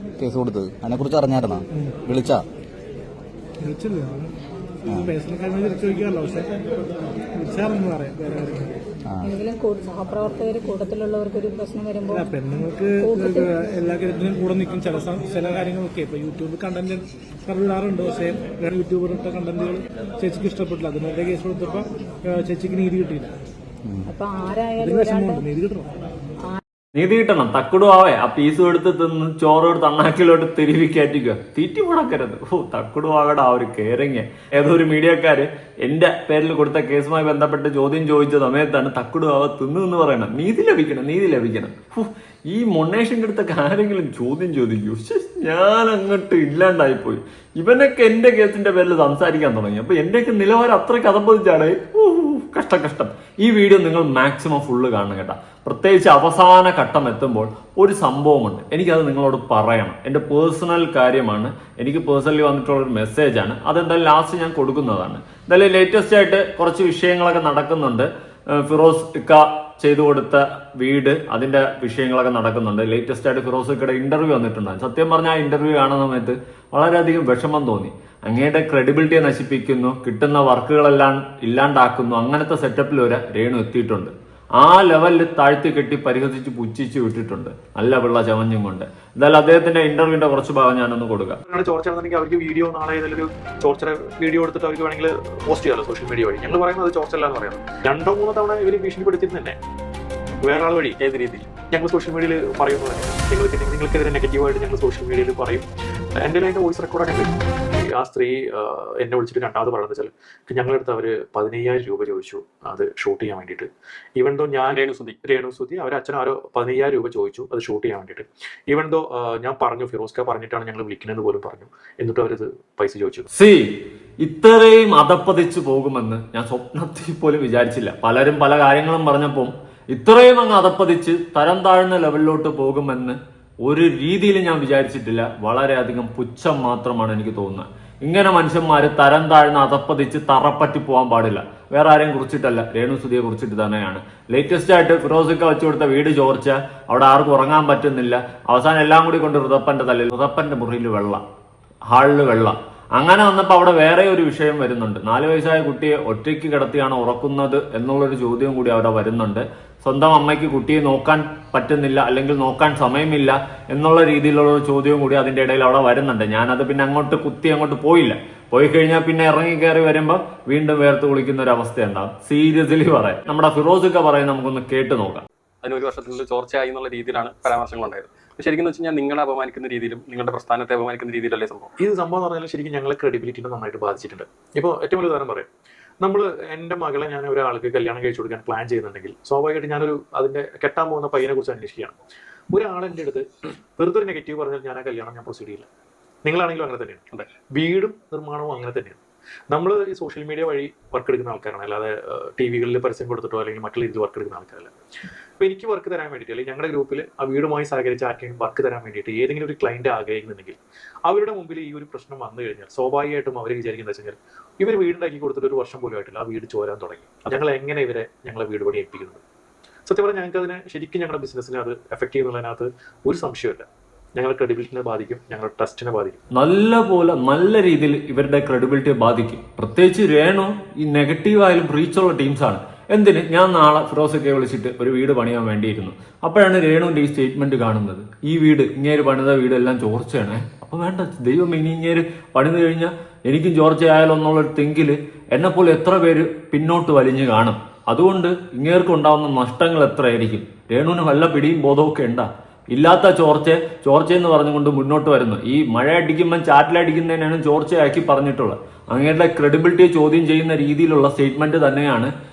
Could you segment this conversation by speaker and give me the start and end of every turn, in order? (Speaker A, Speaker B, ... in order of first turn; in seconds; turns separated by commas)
Speaker A: 0.2-2.4, Speaker B: 3.6-4.3, Speaker A: 4.9-5.2, Speaker B: 5.0-6.5, Speaker B: 7.3-8.8, Speaker C: 9.2-12.3, Speaker B: 12.1-23.3, Speaker C: 13.0-13.7, Speaker C: 24.1-25.5, Speaker B: 24.8-25.9, Speaker D: 26.9-91.4, Speaker E: 91.5-99.6, Speaker E: 100.4-101.0, Speaker F: 101.0-101.5, Speaker E: 101.7-105.7, Speaker E: 106.2-123.3, Speaker F: 114.7-115.2, Speaker D: 123.3-151.2, Speaker D: 151.9-175.3, Speaker F: 175.6-181.7, Speaker E: 181.8-185.5, Speaker E: 186.0-192.0, Speaker E: 192.5-195.7, Speaker E: 196.2-199.0, Speaker E: 199.5-204.7, Speaker E: 205.4-219.2, Speaker E: 219.9-226.2, Speaker D: 226.3-262.1